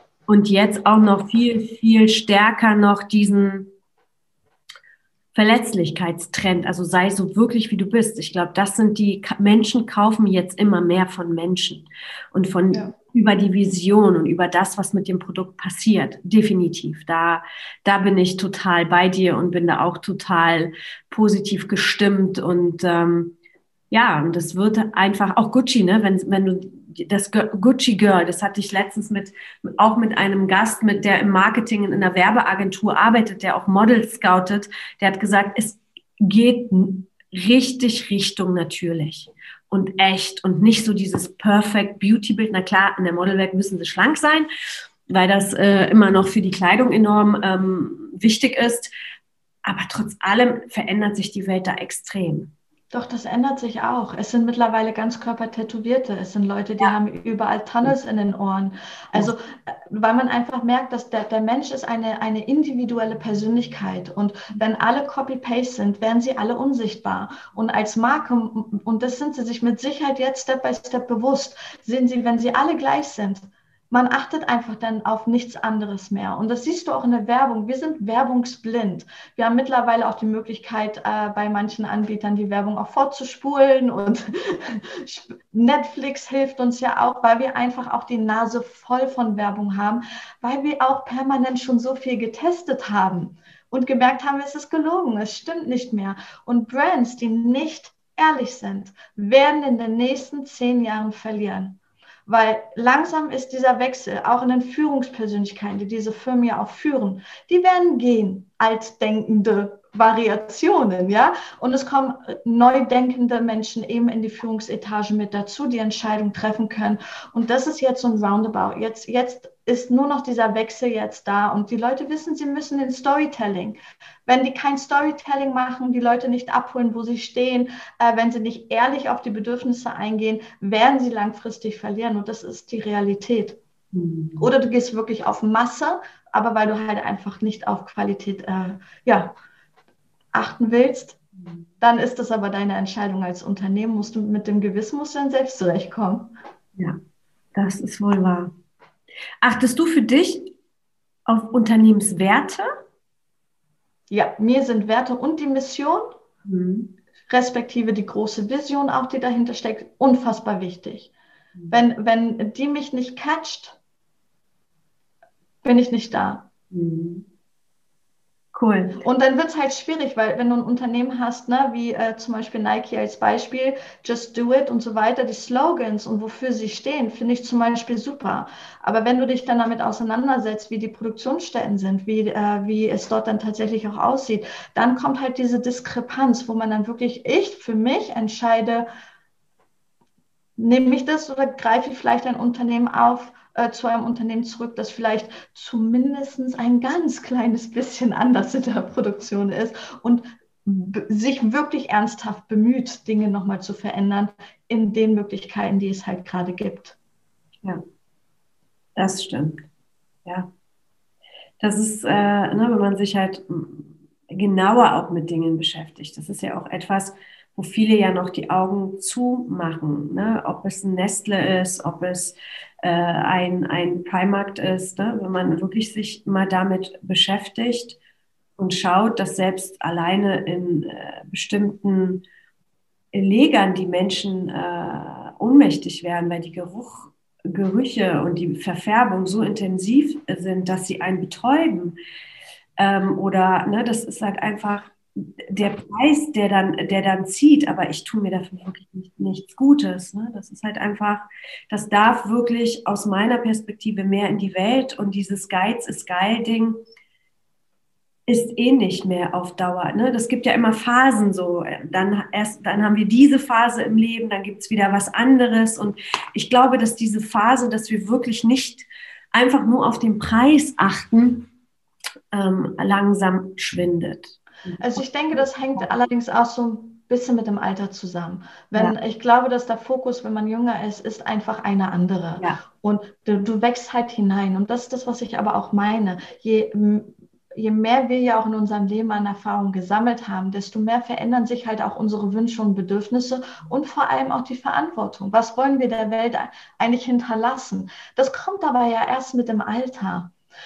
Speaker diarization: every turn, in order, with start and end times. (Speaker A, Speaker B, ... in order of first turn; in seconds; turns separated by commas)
Speaker A: 0.3-3.7, Speaker A: 5.3-23.3, Speaker A: 23.9-44.5, Speaker A: 45.1-48.9, Speaker A: 49.6-52.5, Speaker B: 52.9-133.6, Speaker A: 133.9-134.5, Speaker B: 134.4-139.3, Speaker B: 140.3-141.2, Speaker B: 141.8-146.3, Speaker A: 147.5-148.5, Speaker A: 149.4-150.5, Speaker A: 151.2-152.7, Speaker B: 154.1-156.2, Speaker A: 156.4-156.9, Speaker B: 157.3-161.1, Speaker B: 161.7-163.8, Speaker B: 165.6-166.5, Speaker A: 166.7-167.2, Speaker A: 168.5-169.0, Speaker B: 169.0-188.9, Speaker B: 190.6-206.9, Speaker A: 208.9-209.6, Speaker A: 211.6-228.0, Speaker A: 228.6-232.2, Speaker A: 233.1-241.9, Speaker A: 242.8-256.8, Speaker A: 258.3-271.5, Speaker A: 272.3-275.9, Speaker B: 274.8-300.3